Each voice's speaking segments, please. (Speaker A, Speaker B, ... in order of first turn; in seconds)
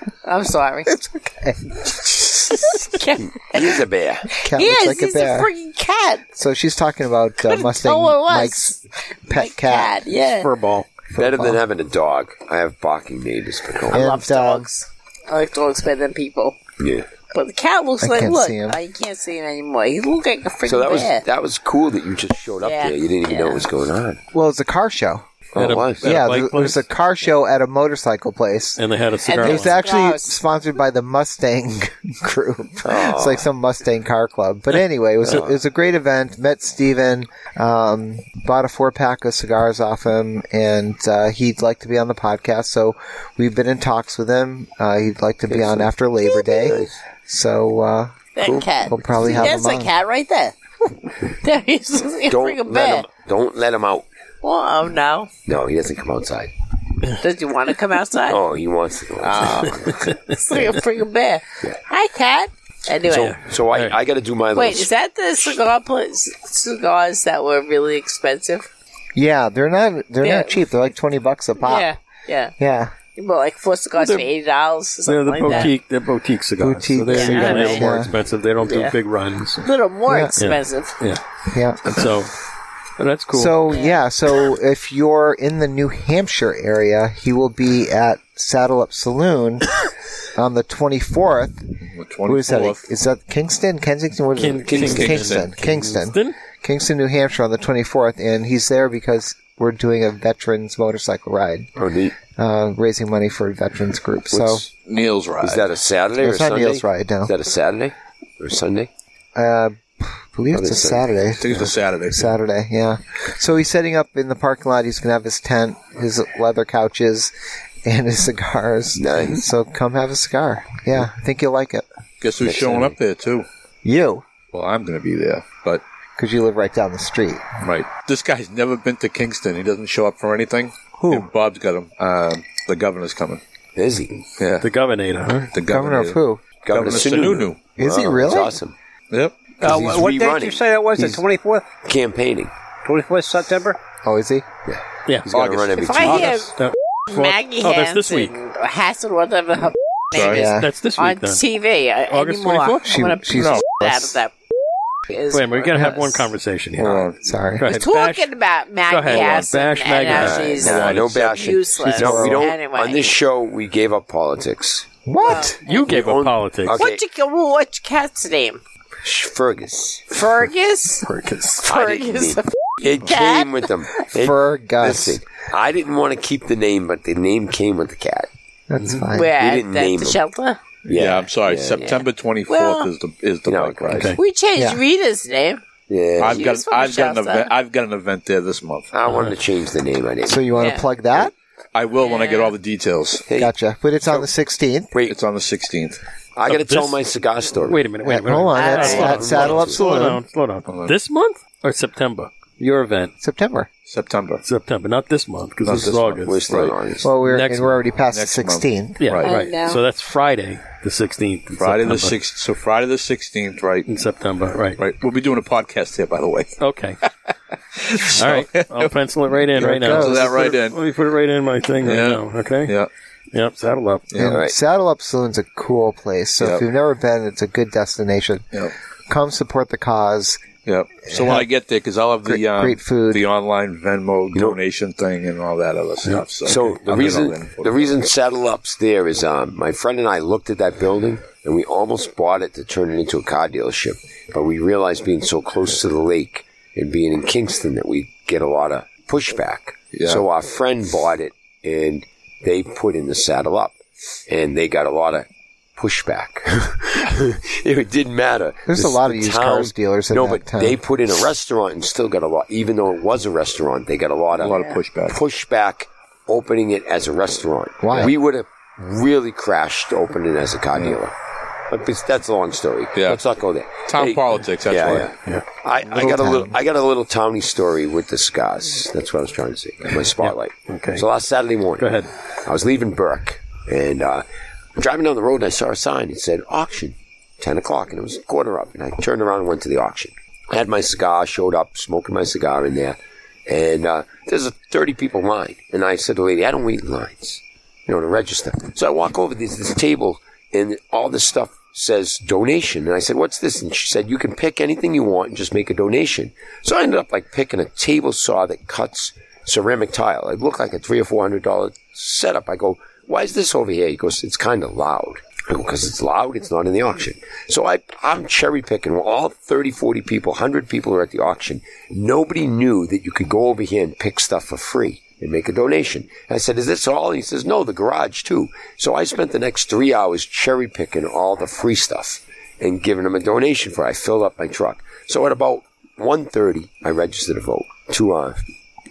Speaker A: 0.2-0.9, 2.6-3.8, 4.4-6.2, 7.4-10.5, 13.9-16.6, 17.3-21.2, 22.6-23.7, 29.2-30.4, 48.4-50.5, 51.3-53.1, 54.4-55.3, 57.2-58.4, 59.2-63.4, 64.5-68.7, 70.2-70.5, 71.6-72.5, 73.1-75.7, 77.1-77.9, 78.6-79.0, 79.6-81.0, 83.7-84.0, 145.8-146.5, 147.1-154.3, 155.1-156.3, 157.6-163.1, 165.2-165.6, 166.8-168.6, 170.1-173.7, 179.1-180.6, 182.5-182.9, 184.1-185.6, 186.2-187.5, 190.5-190.9, 192.0-192.6, 198.5-199.3, 209.2-209.8
Speaker B: 0.8-2.9, 4.4-5.5, 6.3-10.0, 11.1-11.6, 13.9-14.7, 18.0-18.8, 24.3-25.3, 26.0-48.2, 48.9-49.9, 69.1-71.9, 72.6-72.9, 76.6-78.1, 80.1-80.4, 81.5-82.0, 83.3-89.8, 90.3-91.7, 92.2-101.7, 102.4-104.6, 106.2-107.3, 109.3-117.3, 117.8-121.8, 123.8-124.2, 126.2-127.5, 131.0-131.3, 135.6-136.4, 137.8-138.6, 144.0-144.4, 150.2-150.7, 152.8-154.2, 157.2-157.7, 161.8-162.5, 165.1-165.5, 174.2-175.2, 178.7-179.3, 190.2-191.3, 193.3-194.9, 198.0-200.2, 203.2-203.7, 207.0-209.0, 219.6-220.6, 224.2-228.4, 229.1-230.4, 231.1-231.5, 232.2-233.2, 258.7-260.8, 267.8-268.1
Speaker C: 3.4-4.3, 11.1-14.0, 16.8-17.1, 20.6-24.2, 25.5-26.0, 32.8-33.5, 35.3-35.5, 45.5-45.9, 46.6-46.9, 48.4-49.4, 52.3-54.0, 55.5-56.5, 58.3-60.0, 63.0-64.9, 94.7-95.1, 101.8-102.2, 104.3-104.7, 105.4-108.9, 110.5-111.1, 119.0-119.4, 122.4-123.0, 133.8-134.2, 136.6-138.7, 139.6-141.1, 141.8-142.5, 144.7-146.3, 160.1-164.9, 165.5-167.0, 169.0-170.2, 171.6-178.3, 179.4-180.2, 180.8-182.1, 183.4-184.1, 185.9-186.4, 188.9-190.5, 193.3-193.5, 196.3-197.8, 198.9-199.8, 205.7-207.1, 224.3-224.5, 234.3-234.6, 236.4-253.8, 254.3-271.1, 271.7-284.2, 284.8-338.4
Speaker D: 10.3-11.0, 25.6-26.8, 28.8-29.8, 59.7-60.5, 74.0-74.3, 75.0-79.7, 80.4-81.2, 81.8-82.3, 83.0-83.8, 94.3-96.3, 134.6-135.5, 145.1-145.3, 146.1-148.3, 150.3-151.4, 152.1-152.9, 155.3-158.3, 158.8-161.2, 165.6-166.8, 171.0-171.6, 183.9-184.2, 189.1-189.3, 196.5-197.0, 197.6-203.1, 204.4-206.4, 207.2-207.8, 209.0-212.2, 213.9-214.8, 216.6-217.0, 218.1-222.8, 223.3-224.1, 280.2-281.0, 281.8-282.1
Speaker E: 91.8-92.8, 94.8-95.5, 104.8-105.6, 111.4-112.3, 122.2-123.5, 124.5-125.8, 127.6-133.4, 134.4-134.7, 135.5-136.2, 136.7-137.6, 139.1-139.5, 145.3-146.5, 150.1-150.4, 153.3-153.7, 156.8-157.3, 159.1-159.5, 160.7-161.4, 180.9-184.1, 186.2-188.9, 191.7-193.2, 195.1-196.0, 200.7-200.9, 203.8-204.4, 205.7-206.7, 208.1-209.3, 211.6-213.9, 214.8-216.5, 217.8-218.9, 219.5-220.8, 221.8-222.9, 224.1-224.4, 230.7-238.0, 249.9-250.2, 264.4-265.2, 272.9-273.2, 273.9-275.1, 275.9-276.5
Speaker F: 139.6-141.7, 142.8-143.8